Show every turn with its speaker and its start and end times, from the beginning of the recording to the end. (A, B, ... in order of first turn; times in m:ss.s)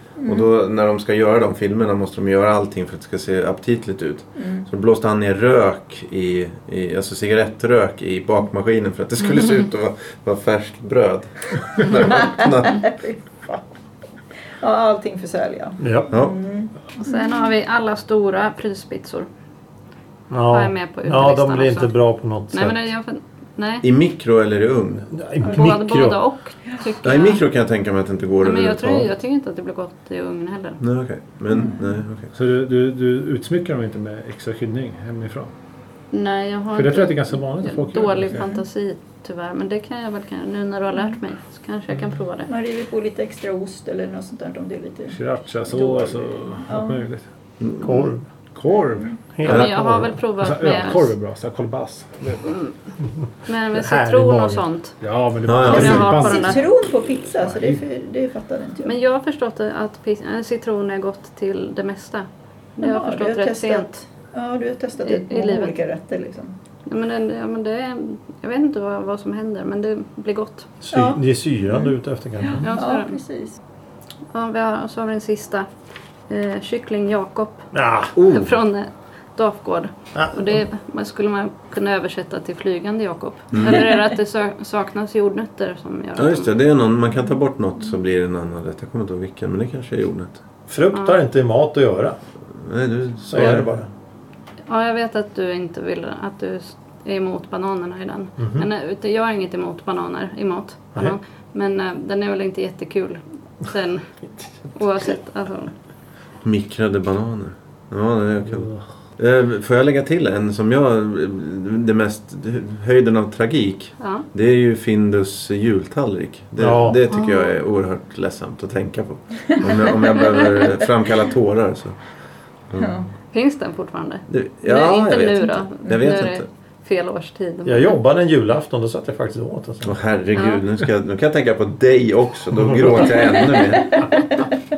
0:00.2-0:00.5 A
0:00.2-0:13.0 B
0:04.4-0:04.7 A
0:11.8-0:13.6 A
0:14.6-0:17.5 A
0:15.8-0:16.1 C
0:17.0-0:19.3 D
0:20.3-0:22.9 C
0:20.5-0:21.9 D
0:22.5-0:23.9 D
0:23.8-0:25.1 B
0:25.1-0:26.2 C
0:25.5-0:27.4 D
0:27.0-0:29.1 B
0:28.4-0:30.8 D
0:30.8-0:32.3 B
0:31.5-0:31.8 A
0:32.3-0:35.5 E
0:36.1-0:42.5 D
0:36.7-0:38.4 E
0:42.5-0:45.2 A
0:45.1-0:47.2 E
0:45.7-0:46.2 D
0:46.7-0:47.1 A
0:47.6-0:47.9 B
0:47.8-0:48.2 C
0:48.5-0:52.6 E
0:49.4-0:50.2 C
0:49.4-0:51.1 D
0:49.5-0:49.7 B
0:52.4-0:52.7 D
0:53.5-0:54.9 D
0:53.7-0:54.7 C
0:55.0-0:56.7 E
0:55.5-0:56.0 B
0:55.6-0:56.6 D
0:55.7-0:58.9 A
0:58.8-1:04.0 D
1:02.8-1:06.6 A
1:05.0-1:05.7 D
1:06.9-1:10.7 D
1:10.8-1:12.7 C
1:10.9-1:11.2 A
1:12.4-1:13.6 A
1:12.6-1:13.2 D
1:14.3-1:15.7 D
1:16.3-1:26.6 D
1:17.7-1:18.1 C
1:18.2-1:18.5 B
1:20.2-1:20.6 C
1:23.5-1:23.9 B
1:26.2-1:30.4 B
1:30.7-1:32.2 C
1:32.6-1:33.7 B
1:33.3-1:33.9 C
1:34.7-1:44.1 D
1:38.4-1:38.7 C
1:44.7-1:45.7 D
1:46.4-2:02.0 B
1:54.0-1:54.2 D
1:56.6-1:57.0 C
1:57.1-1:57.6 D
2:00.2-2:00.6 D
2:02.8-2:03.1 A
2:03.3-2:08.0 D
2:04.3-2:06.4 B
2:07.6-2:10.0 C
2:09.8-2:14.2 B
2:10.3-2:10.6 D
2:12.6-2:13.1 C
2:13.3-2:14.2 A